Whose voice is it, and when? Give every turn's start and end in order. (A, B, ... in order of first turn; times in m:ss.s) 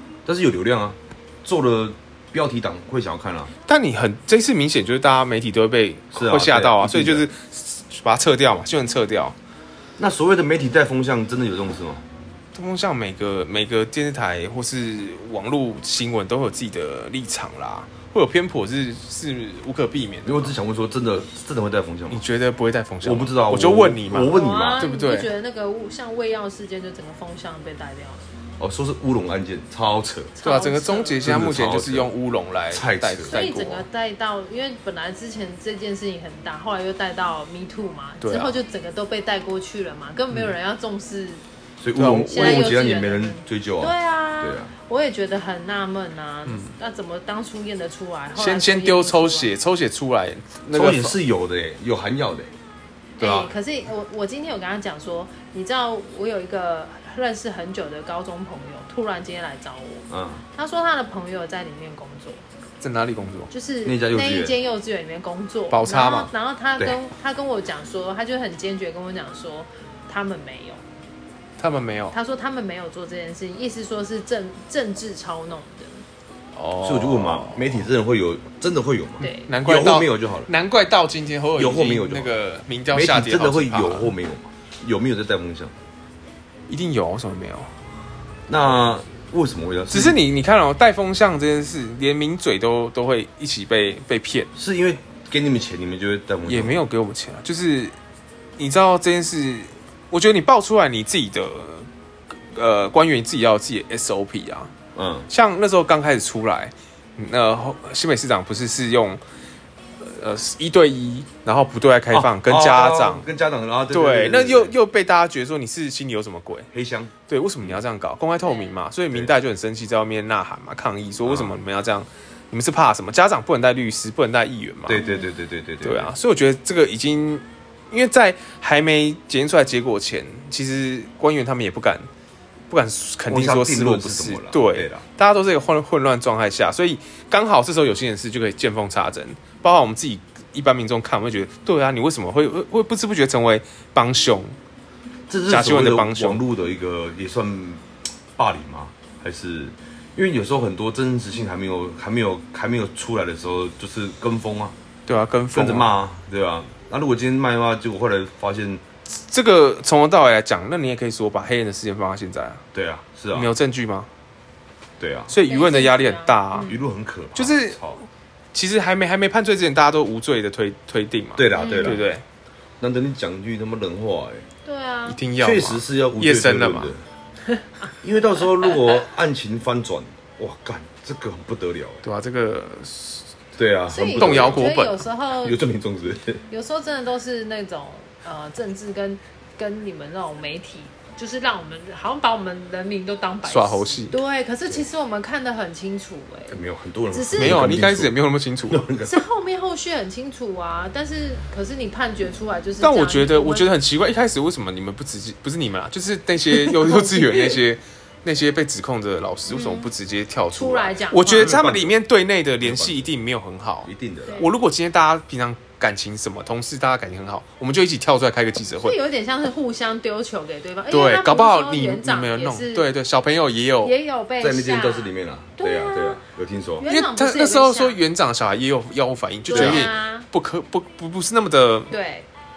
0:00.3-0:03.5 A
0:03.7-0:09.4 B
0:06.1-0:07.3 A
0:10.0-0:12.0 A
0:12.5-0:20.5 B
0:20.2-0:22.2 A
0:22.1-0:25.3 B
0:23.0-0:24.8 A
0:24.3-0:28.3 C
0:28.6-0:30.3 A
0:30.4-0:31.3 C
0:30.4-0:33.9 B
0:31.2-0:32.1 A
0:32.7-0:33.4 A
0:33.3-0:41.4 C
0:38.2-0:38.6 B
0:41.8-0:44.7 A
0:42.0-0:42.8 B
0:42.2-0:49.5 C
0:46.5-0:46.7 B
0:48.4-0:51.2 B
0:50.7-0:52.5 A
0:53.2-1:02.4 C
0:53.2-0:53.5 A
1:00.1-1:00.4 A
1:02.8-1:03.5 B
1:03.5-1:10.8 C
1:03.8-1:04.5 A
1:05.7-1:06.3 B
1:11.6-1:12.2 B
1:12.1-1:16.0 C
1:16.6-1:17.9 B
1:16.8-1:20.5 A
1:19.2-1:19.5 C
1:19.3-1:24.1 B
1:21.6-1:22.3 A
1:22.9-1:25.7 A
1:26.7-1:27.7 B
1:28.5-1:30.2 A
1:29.9-1:34.5 B
1:34.6-1:36.8 A
1:36.5-1:38.0 B
1:38.6-1:44.7 B
1:45.0-1:45.3 A
1:45.3-1:49.2 B
1:50.0-1:53.3 B
1:52.1-1:54.7 A
1:53.9-1:56.7 B
1:56.7-1:57.1 A
1:57.3-2:05.1 B
2:01.2-2:01.6 A
2:04.9-2:06.1 A
2:05.0-2:05.3 C
2:05.8-2:12.1 B
2:12.7-2:24.6 B
2:13.3-2:15.0 A
2:25.3-2:27.8 A
2:25.5-2:26.4 B
2:28.4-2:34.8 A
2:35.1-2:35.9 B
2:35.5-2:38.8 A
2:39.1-2:42.6 B
2:42.7-2:43.5 A
2:43.3-2:44.1 B
2:45.0-2:45.3 A
2:45.3-2:46.7 B
2:45.4-2:46.8 C
2:46.6-2:48.0 A
2:47.4-2:47.8 B
2:48.5-2:52.2 B
2:51.4-2:52.1 A
2:51.6-2:52.0 C
2:52.8-2:54.4 A
2:54.6-2:55.2 C
2:55.1-2:56.9 B
2:55.4-2:57.0 A
2:58.0-3:02.0 A
3:02.0-3:03.3 B
3:03.6-3:04.7 A
3:03.9-3:05.6 C
3:04.2-3:05.1 B
3:05.3-3:06.4 A
3:06.5-3:16.6 C
3:13.4-3:14.2 B
3:16.5-3:18.1 A
3:17.1-3:17.7 C
3:17.3-3:18.8 B
3:18.7-3:19.2 A
3:19.0-3:23.7 C
3:22.8-3:39.0 B
3:26.5-3:27.6 C
3:29.5-3:29.9 C
3:30.5-3:31.6 C
3:31.3-3:32.0 A
3:32.6-3:33.0 A
3:33.8-3:34.4 A
3:38.8-3:42.9 C
3:40.9-3:44.0 B
3:43.8-3:46.2 C
3:44.4-3:46.9 A
3:46.8-3:48.0 C
3:46.8-3:51.9 B
3:49.5-3:50.3 C
3:49.5-3:49.8 A
3:51.9-3:52.3 C